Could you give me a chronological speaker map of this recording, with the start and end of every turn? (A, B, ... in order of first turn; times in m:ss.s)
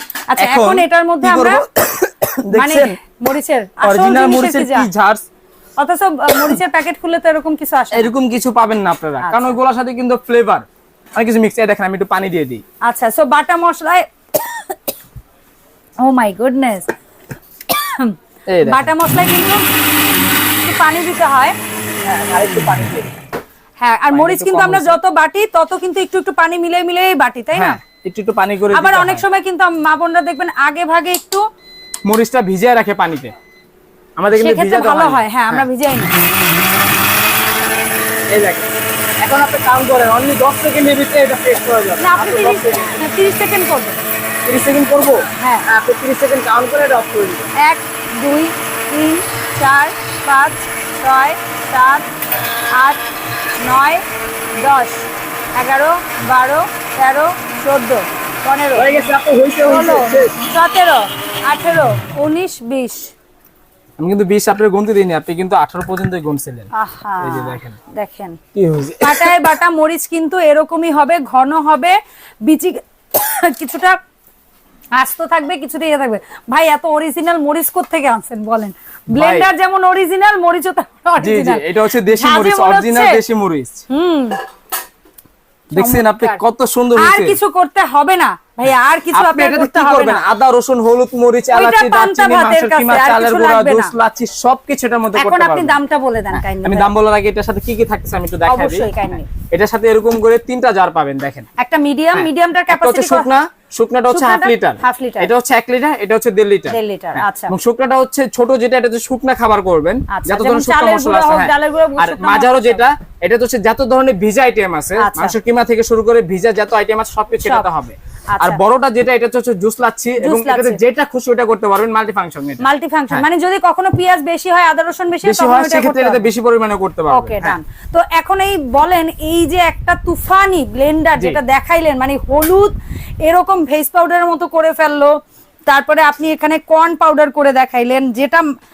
0:00.3-0:01.6 A
0:00.4-0:02.9 B
0:02.5-0:04.9 A
0:03.8-0:05.2 B
0:05.8-0:08.1 A
0:07.9-0:10.6 B
0:09.2-0:09.6 A
0:11.2-0:12.6 B
0:12.8-0:14.7 A
0:16.0-0:16.9 A
0:17.7-0:19.6 A
0:18.5-0:18.9 B
0:20.6-0:21.5 A
0:22.0-0:23.1 B
0:23.8-0:27.8 A
0:24.1-0:25.0 B
0:27.5-0:29.2 B
0:28.7-0:31.4 A
0:32.0-0:33.3 B
0:34.2-0:35.7 B
0:34.4-0:36.1 A
0:38.3-0:38.7 B
0:39.2-0:43.0 B
0:42.0-0:44.0 A
0:44.4-0:47.5 B
0:45.4-0:45.6 A
0:47.6-0:52.0 A
0:52.7-0:53.0 A
0:53.6-0:54.0 A
0:54.6-0:58.9 A
0:58.8-1:00.4 B
0:59.6-1:03.1 A
1:04.0-1:06.7 B
1:06.7-1:08.4 A
1:07.2-1:07.8 B
1:08.5-1:09.5 B
1:09.0-1:12.0 A
1:12.5-1:14.0 A
1:15.0-1:23.2 A
1:19.1-1:19.5 B
1:21.2-1:23.8 B
1:23.9-1:24.4 A
1:25.7-1:27.4 B
1:25.7-1:26.4 A
1:27.0-1:30.2 A
1:29.1-1:35.8 B
1:31.5-1:33.9 A
1:35.1-1:36.9 A
1:36.3-1:41.5 B
1:38.4-1:39.3 A
1:41.6-1:43.3 A
1:42.1-2:03.2 B
1:44.1-1:45.3 A
1:46.7-1:47.5 A
1:50.1-1:52.8 A
1:55.0-1:55.4 A
1:58.3-1:58.6 A
2:00.2-2:00.8 A
2:02.6-2:06.2 A
2:05.2-2:07.6 B
2:07.1-2:15.1 A
2:15.7-2:18.4 A